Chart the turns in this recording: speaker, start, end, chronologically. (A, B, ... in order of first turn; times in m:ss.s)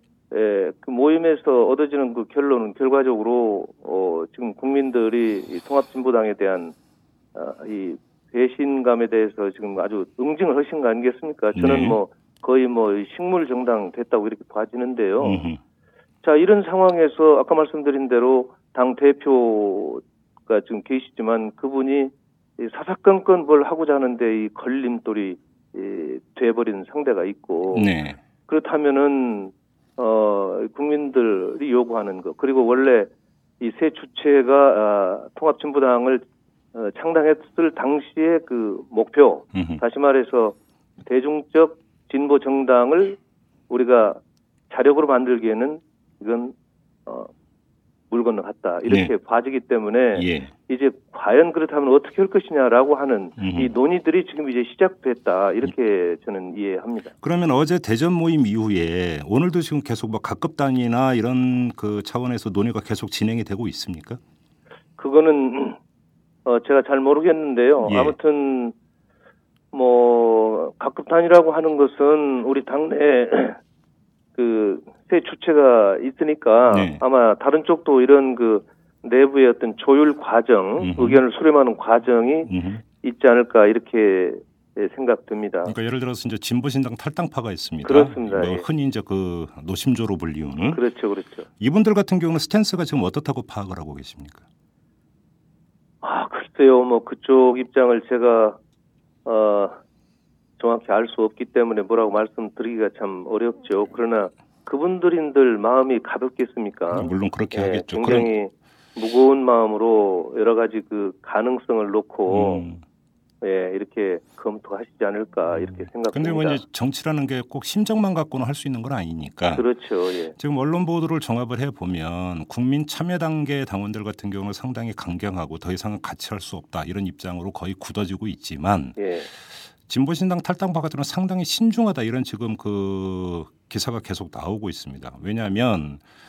0:00.3-0:06.7 A
0:07.3-0:15.4 A
0:11.5-0:12.0 B
0:15.2-0:15.6 B
0:16.2-0:27.9 A
0:27.7-0:28.2 B
0:28.5-0:36.2 A
0:36.7-0:43.2 A
0:39.5-0:39.8 B
0:43.7-0:46.5 A
0:47.0-0:47.3 A
0:48.1-0:57.1 A
0:48.9-0:49.1 B
0:50.1-0:50.5 B
0:53.4-0:53.7 B
0:57.2-1:04.2 B
1:05.0-1:05.8 A
1:06.4-1:08.7 A
1:07.8-1:08.1 B
1:09.7-1:13.6 A
1:14.4-1:25.7 A
1:16.7-1:17.0 B
1:20.8-1:21.2 B
1:22.5-1:22.8 B
1:25.6-1:30.8 B
1:27.8-1:28.6 A
1:30.7-1:31.5 A
1:31.6-1:34.4 B
1:36.0-1:38.6 A
1:39.2-1:39.8 A
1:40.6-1:52.7 A
1:46.9-1:48.3 B
1:52.3-1:52.8 B
1:53.4-1:56.6 A
1:55.5-1:59.6 B
1:59.5-2:00.3 A
2:00.4-2:09.0 B
2:09.0-2:09.3 A
2:09.9-2:16.0 B